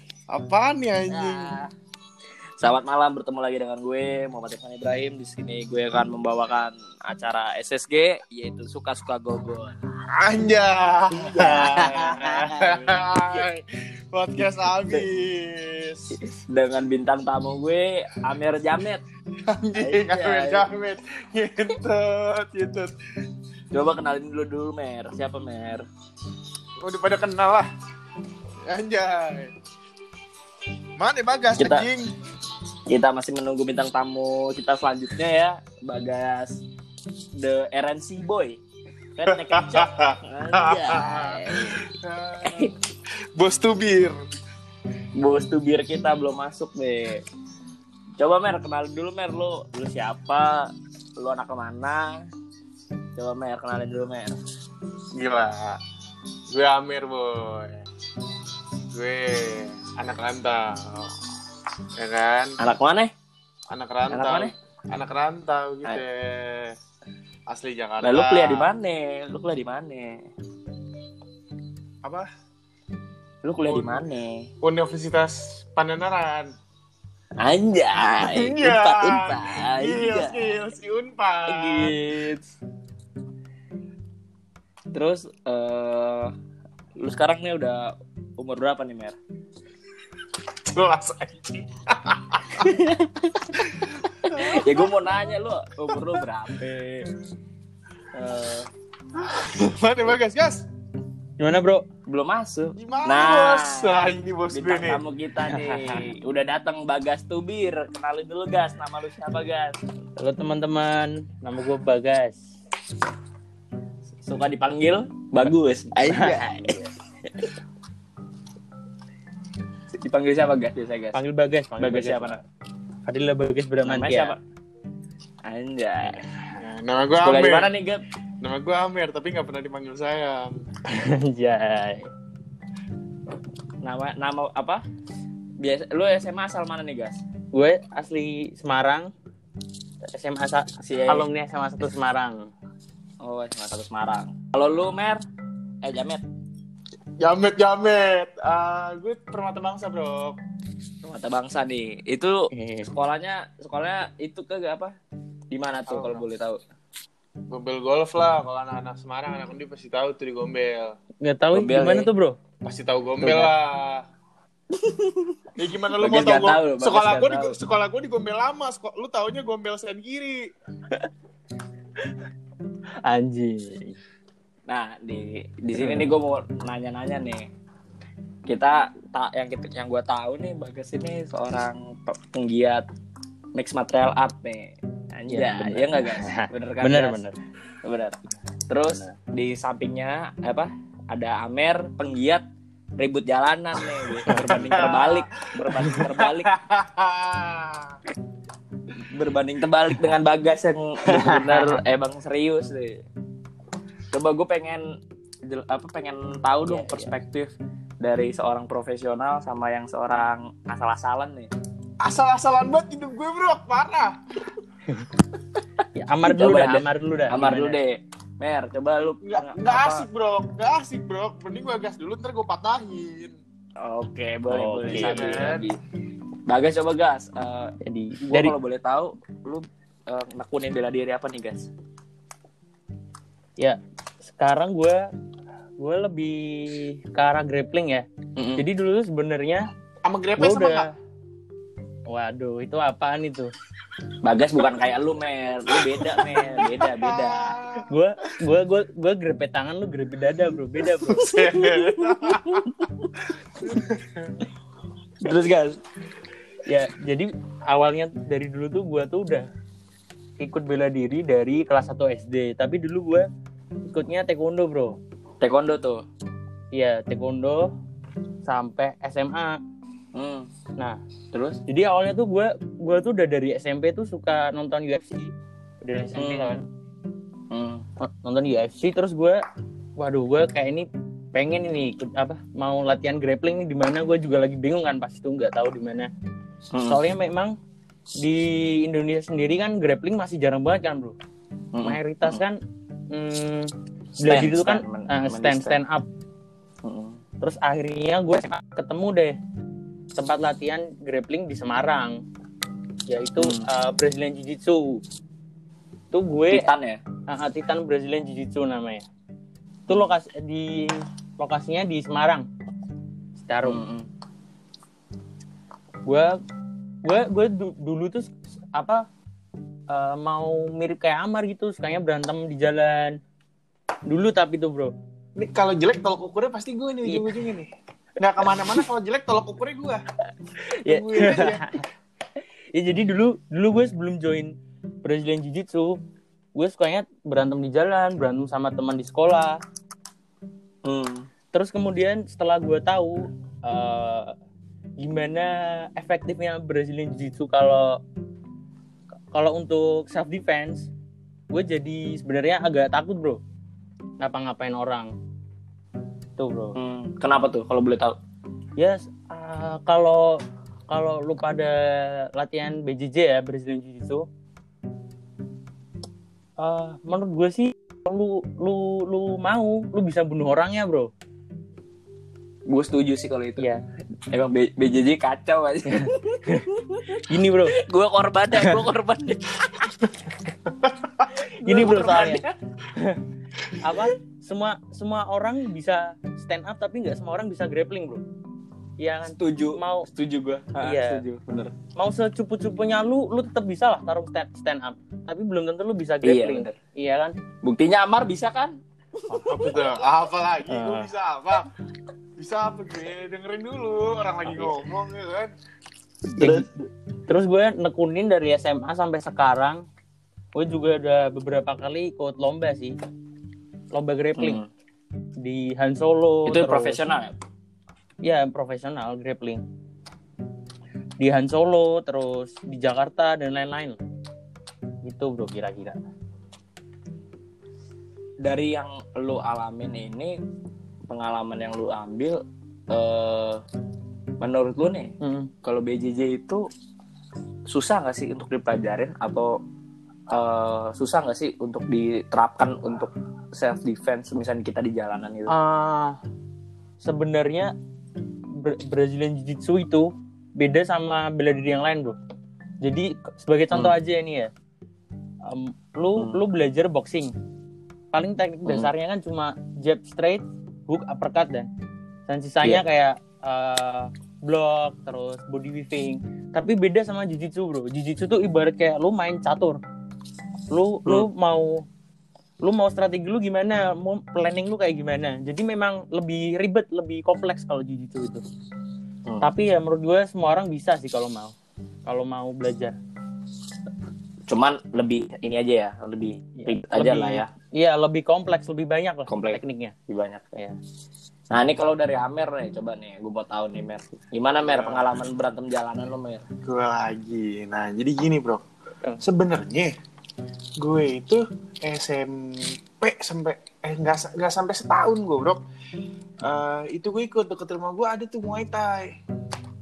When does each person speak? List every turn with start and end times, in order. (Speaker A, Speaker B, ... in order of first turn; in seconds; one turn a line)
Speaker A: 0.3-1.5
Speaker B: 2.6-9.8
Speaker A: 10.1-16.2
Speaker C: 11.1-12.7
Speaker B: 16.1-19.0
Speaker A: 19.4-22.9
Speaker B: 19.8-20.7
Speaker B: 23.7-25.9
Speaker A: 26.8-27.7
Speaker A: 28.6-29.5
Speaker A: 31.0-32.1
Speaker B: 31.6-31.9
Speaker B: 32.9-36.6
Speaker B: 37.4-38.6
Speaker B: 39.1-41.9
Speaker A: 39.3-42.8
Speaker B: 42.4-42.7
Speaker A: 43.4-44.2
Speaker B: 45.2-47.2
Speaker B: 48.2-52.2
Speaker B: 53.1-54.4
Speaker A: 55.1-55.8
Speaker A: 56.5-57.8
Speaker A: 58.9-61.2
Speaker A: 61.9-62.6
Speaker B: 62.6-63.1
Speaker A: 63.7-66.8
Speaker B: 64.1-64.5
Speaker A: 67.5-68.7
Speaker B: 68.0-70.2
Speaker B: 73.4-74.5
Speaker A: 73.7-74.0
Speaker A: 74.6-76.5
Speaker B: 77.4-80.6
Speaker A: 78.2-82.0
Speaker B: 81.5-82.5
Speaker B: 84.9-86.3
Speaker B: 87.0-89.2
Speaker A: 90.5-92.7
Speaker B: 92.6-93.7
Speaker A: 93.5-95.0
Speaker B: 94.2-97.1
Speaker B: 98.1-98.7
Speaker A: 99.1-100.6
Speaker C: 101.4-101.8
Speaker B: 102.1-109.8
Speaker A: 102.8-105.0
Speaker C: 110.2-112.5
Speaker B: 114.2-117.4
Speaker C: 116.0-116.9
Speaker B: 120.0-121.2
Speaker C: 121.1-122.4
Speaker B: 121.8-122.4
Speaker C: 123.0-124.3
Speaker B: 123.8-124.4
Speaker B: 125.4-126.2
Speaker A: 126.5-127.7
Speaker B: 127.2-128.0
Speaker A: 128.4-130.6
Speaker C: 130.9-132.1
Speaker B: 133.8-134.8
Speaker B: 135.6-137.2
Speaker C: 137.5-139.1
Speaker C: 140.1-142.5
Speaker B: 140.8-141.2
Speaker B: 143.2-145.2
Speaker B: 145.8-146.2
Speaker A: 147.2-150.3
Speaker B: 151.0-154.9
Speaker C: 152.5-152.9
Speaker B: 155.5-156.6
Speaker A: 155.9-156.2
Speaker A: 157.5-160.9
Speaker C: 161.2-162.3
Speaker B: 161.5-162.1
Speaker A: 162.6-164.0
Speaker C: 163.2-163.5
Speaker B: 164.7-165.4
Speaker A: 165.6-170.4
Speaker B: 165.9-167.6
Speaker C: 173.0-173.9
Speaker B: 174.7-177.5
Speaker C: 175.7-176.1
Speaker B: 178.5-182.8
Speaker B: 183.5-187.2
Speaker C: 185.3-187.4
Speaker B: 187.8-188.2
Speaker B: 188.7-192.4
Speaker B: 193.0-196.5
Speaker C: 194.2-194.6
Speaker A: 194.3-198.0
Speaker B: 199.1-203.0
Speaker C: 201.1-201.8
Speaker B: 204.1-204.8
Speaker B: 205.4-211.5
Speaker C: 206.6-207.1
Speaker A: 212.0-214.2
Speaker C: 215.9-217.8
Speaker B: 216.2-220.1
Speaker A: 219.2-223.4
Speaker B: 223.8-225.8
Speaker C: 224.5-225.4
Speaker A: 224.9-225.7
Speaker B: 226.5-231.7
Speaker C: 227.8-228.6
Speaker C: 233.6-235.1
Speaker C: 235.8-238.1
Speaker B: 238.3-238.6
Speaker C: 238.6-239.6
Speaker A: 240.0-240.9
Speaker C: 240.4-240.9
Speaker C: 242.1-243.5
Speaker B: 244.2-247.6
Speaker A: 245.7-247.9
Speaker C: 247.9-251.7
Speaker A: 251.0-252.8
Speaker B: 252.4-252.9
Speaker A: 253.6-254.4
Speaker B: 255.2-255.8
Speaker C: 256.6-259.5
Speaker C: 260.4-263.2
Speaker C: 263.9-265.0
Speaker B: 265.4-266.0
Speaker C: 266.7-267.7
Speaker C: 268.4-269.6
Speaker B: 270.1-270.5
Speaker B: 271.3-271.6
Speaker C: 271.7-276.6
Speaker B: 276.2-276.6
Speaker B: 277.5-277.8
Speaker C: 278.0-279.4
Speaker C: 280.0-286.1
Speaker B: 286.7-287.0
Speaker C: 286.9-287.6
Speaker C: 288.2-291.1
Speaker B: 291.7-292.4
Speaker C: 291.8-292.6
Speaker C: 293.1-296.0
Speaker B: 294.3-295.8
Speaker B: 296.8-297.2
Speaker C: 297.4-299.4
Speaker C: 300.1-302.2
Speaker C: 303.1-305.0
Speaker B: 303.4-303.6
Speaker C: 306.1-306.7
Speaker B: 306.5-307.0
Speaker C: 307.3-309.0
Speaker C: 309.9-312.4
Speaker C: 313.4-313.8
Speaker B: 313.6-314.1
Speaker C: 316.1-316.3
Speaker C: 317.0-319.1
Speaker C: 319.9-323.2
Speaker C: 324.1-324.9
Speaker A: 325.4-330.0
Speaker C: 327.1-327.4
Speaker C: 330.7-331.8
Speaker A: 330.9-331.7
Speaker C: 332.7-334.5
Speaker C: 335.0-336.0
Speaker C: 336.6-339.6
Speaker B: 340.8-341.3
Speaker C: 341.5-344.3
Speaker C: 345.0-348.0
Speaker C: 349.3-350.9
Speaker C: 351.5-353.4
Speaker C: 354.2-355.1
Speaker C: 356.4-356.8
Speaker B: 356.8-358.1
Speaker C: 358.8-360.4
Speaker C: 360.9-364.2
Speaker C: 366.6-371.1
Speaker B: 372.7-373.7
Speaker B: 374.3-380.1
Speaker C: 376.4-377.7
Speaker A: 380.8-381.2
Speaker C: 381.4-383.2
Speaker B: 381.6-382.5
Speaker C: 383.7-388.2
Speaker C: 389.0-390.1
Speaker B: 389.4-391.7
Speaker C: 390.8-391.2
Speaker C: 391.9-397.3
Speaker B: 396.2-396.8
Speaker B: 397.6-399.8
Speaker A: 399.4-401.7
Speaker C: 400.7-401.1
Speaker A: 402.4-405.5
Speaker B: 406.3-406.7
Speaker C: 406.4-406.6
Speaker C: 407.3-409.8
Speaker C: 410.6-412.9
Speaker C: 413.9-414.6
Speaker B: 414.4-414.6
Speaker C: 415.4-417.0
Speaker B: 416.4-417.3
Speaker C: 418.2-419.6
Speaker C: 421.2-424.0
Speaker C: 425.0-426.0
Speaker B: 428.4-430.3
Speaker B: 431.1-432.4
Speaker B: 432.9-433.6
Speaker B: 434.4-436.6
Speaker C: 435.2-435.5
Speaker B: 437.7-439.6
Speaker B: 440.3-445.5
Speaker C: 445.5-446.2
Speaker C: 447.0-447.7
Speaker C: 448.6-452.1
Speaker C: 452.8-454.5
Speaker C: 455.4-457.3
Speaker C: 458.1-461.7
Speaker C: 462.3-469.8
Speaker C: 470.7-471.8
Speaker C: 472.6-478.4
Speaker C: 479.4-481.5
Speaker C: 482.1-482.9
Speaker B: 484.5-487.5
Speaker C: 486.6-489.9
Speaker B: 489.3-490.6
Speaker B: 491.5-496.4
Speaker A: 494.6-495.1
Speaker A: 496.6-498.6
Speaker A: 499.2-499.9
Speaker A: 500.8-505.6
Speaker A: 506.4-509.2